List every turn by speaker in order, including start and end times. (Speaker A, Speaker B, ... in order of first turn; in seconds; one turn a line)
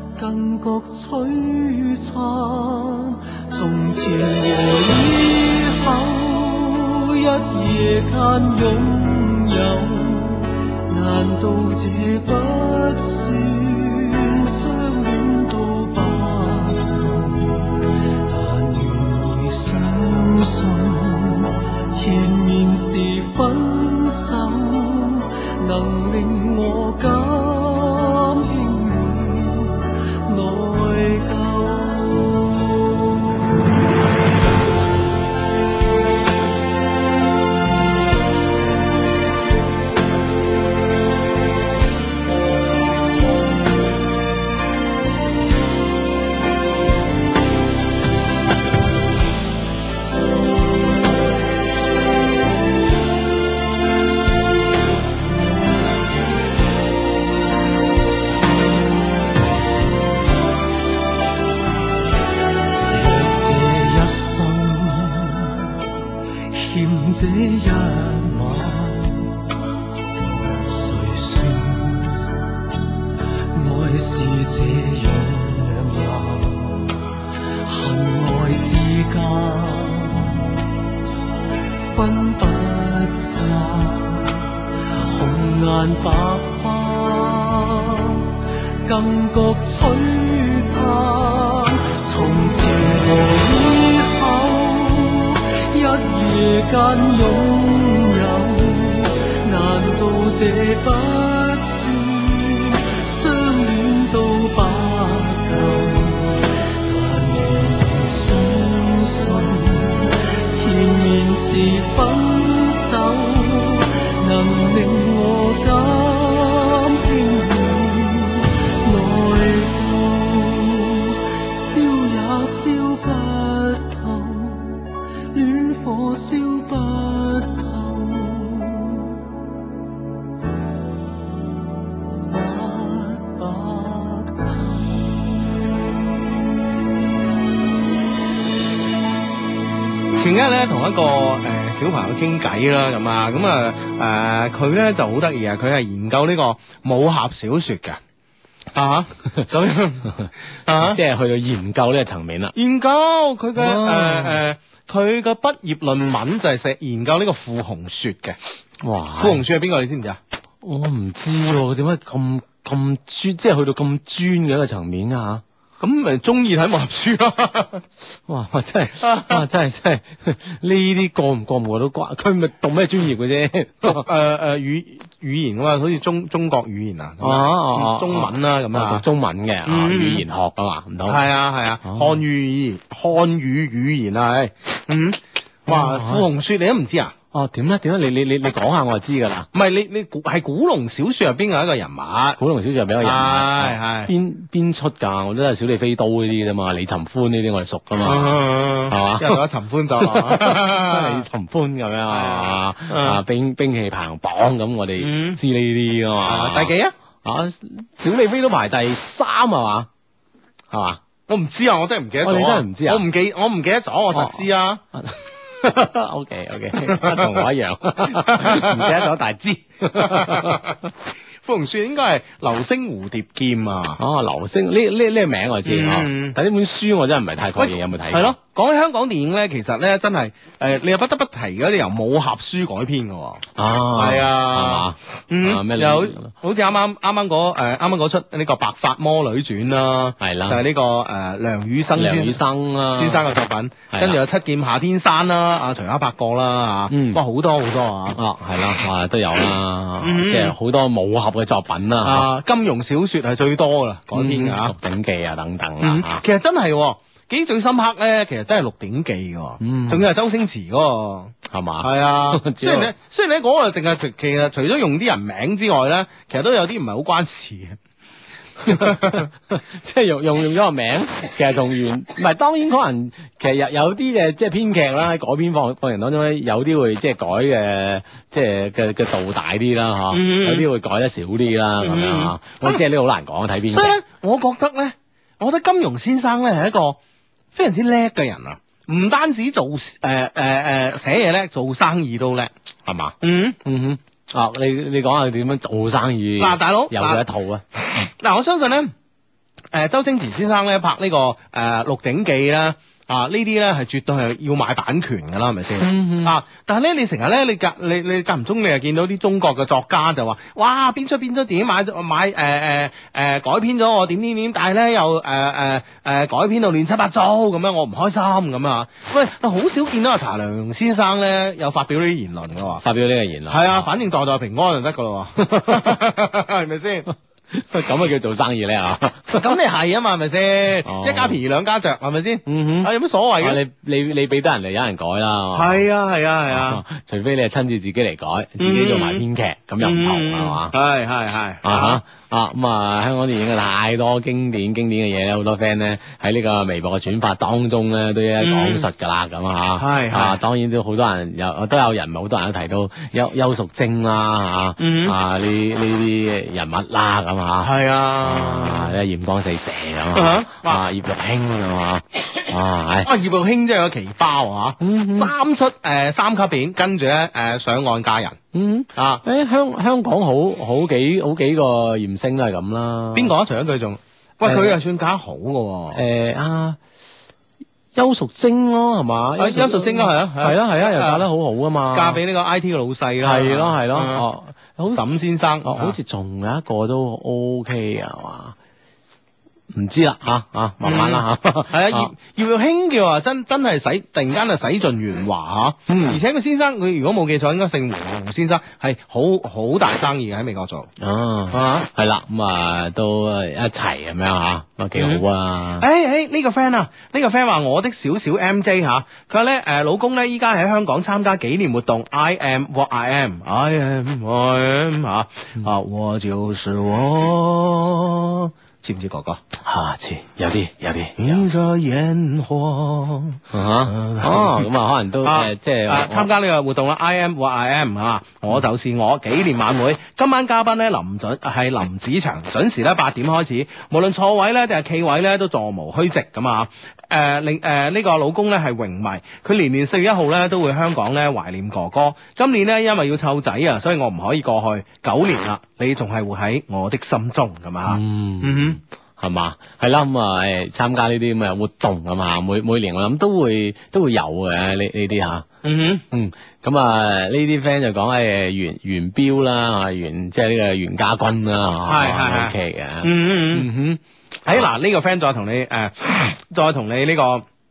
Speaker A: 0.2-32.6
Speaker A: 62.9-65.8
Speaker A: 66.5-69.4
Speaker A: 70.7-72.4
Speaker A: 73.5-77.0
Speaker A: 77.7-80.5
Speaker A: 81.9-88.3
Speaker A: 88.8-129.2
Speaker A: 132.2-135.2
Speaker B: 140.1-148.0
Speaker B: 148.8-150.1
Speaker C: 150.1-152.6
Speaker B: 150.7-151.0
Speaker B: 152.6-158.4
Speaker C: 153.6-154.4
Speaker C: 158.8-159.4
Speaker B: 159.2-160.2
Speaker C: 160.6-165.4
Speaker B: 165.8-167.8
Speaker C: 168.3-174.1
Speaker B: 169.0-169.4
Speaker B: 173.8-179.0
Speaker C: 177.2-181.3
Speaker B: 179.7-180.2
Speaker B: 181.1-187.2
Speaker C: 181.8-182.2
Speaker C: 185.7-186.3
Speaker C: 187.3-189.5
Speaker B: 189.5-192.4
Speaker C: 192.4-199.4
Speaker B: 193.0-194.1
Speaker B: 198.0-201.2
Speaker C: 200.0-206.7
Speaker B: 202.1-203.2
Speaker B: 205.0-205.4
Speaker B: 206.2-206.9
Speaker C: 207.2-209.9
Speaker C: 210.7-211.0
Speaker B: 211.3-214.8
Speaker C: 212.2-213.1
Speaker C: 214.1-220.7
Speaker B: 216.8-217.4
Speaker B: 218.0-219.1
Speaker B: 219.9-220.8
Speaker B: 221.4-224.0
Speaker C: 224.0-228.4
Speaker B: 225.7-226.4
Speaker B: 227.6-233.4
Speaker C: 233.6-236.3
Speaker B: 233.9-248.2
Speaker C: 240.2-240.6
Speaker C: 242.0-243.2
Speaker C: 243.9-244.2
Speaker C: 246.9-247.2
Speaker C: 248.1-252.3
Speaker B: 250.0-250.5
Speaker B: 252.0-254.8
Speaker C: 254.1-256.2
Speaker B: 255.8-267.8
Speaker C: 259.6-260.1
Speaker C: 261.5-262.9
Speaker B: 268.6-269.3
Speaker C: 268.6-284.0
Speaker B: 280.1-280.7
Speaker B: 281.8-282.8
Speaker B: 283.7-287.0
Speaker B: 287.5-292.5
Speaker C: 292.9-297.6
Speaker B: 293.2-293.6
Speaker B: 296.4-297.2
Speaker B: 297.9-298.9
Speaker B: 299.7-322.8
Speaker C: 305.8-306.4
Speaker C: 322.8-323.9
Speaker B: 323.5-327.1
Speaker C: 325.4-326.0
Speaker C: 327.5-329.5
Speaker B: 329.3-333.6
Speaker C: 330.8-331.4
Speaker C: 332.5-335.8
Speaker B: 335.5-336.8
Speaker C: 336.5-340.7
Speaker B: 338.6-339.2
Speaker B: 339.8-342.0
Speaker C: 341.6-363.1
Speaker B: 348.4-348.9
Speaker B: 349.8-350.4
Speaker B: 354.8-355.2
Speaker B: 357.6-359.0
Speaker B: 360.1-360.8
Speaker B: 363.0-368.4
Speaker C: 364.8-365.3
Speaker C: 368.5-373.3
Speaker B: 368.9-369.2
Speaker B: 373.1-376.0
Speaker C: 374.4-374.8
Speaker C: 375.9-376.8
Speaker C: 377.9-382.2
Speaker B: 379.4-381.3
Speaker B: 381.9-384.3
Speaker C: 383.2-385.0
Speaker B: 384.9-386.0
Speaker C: 385.6-388.6
Speaker C: 389.7-392.1
Speaker B: 390.8-400.9
Speaker C: 395.9-396.2
Speaker C: 401.0-405.9
Speaker B: 401.5-401.8
Speaker B: 405.0-405.2
Speaker B: 405.8-419.4
Speaker C: 419.6-421.4
Speaker B: 421.2-424.7
Speaker C: 423.5-426.3
Speaker B: 425.2-448.8
Speaker C: 447.9-455.5
Speaker B: 455.6-456.0
Speaker C: 456.1-464.7
Speaker B: 461.9-463.7
Speaker B: 464.4-467.4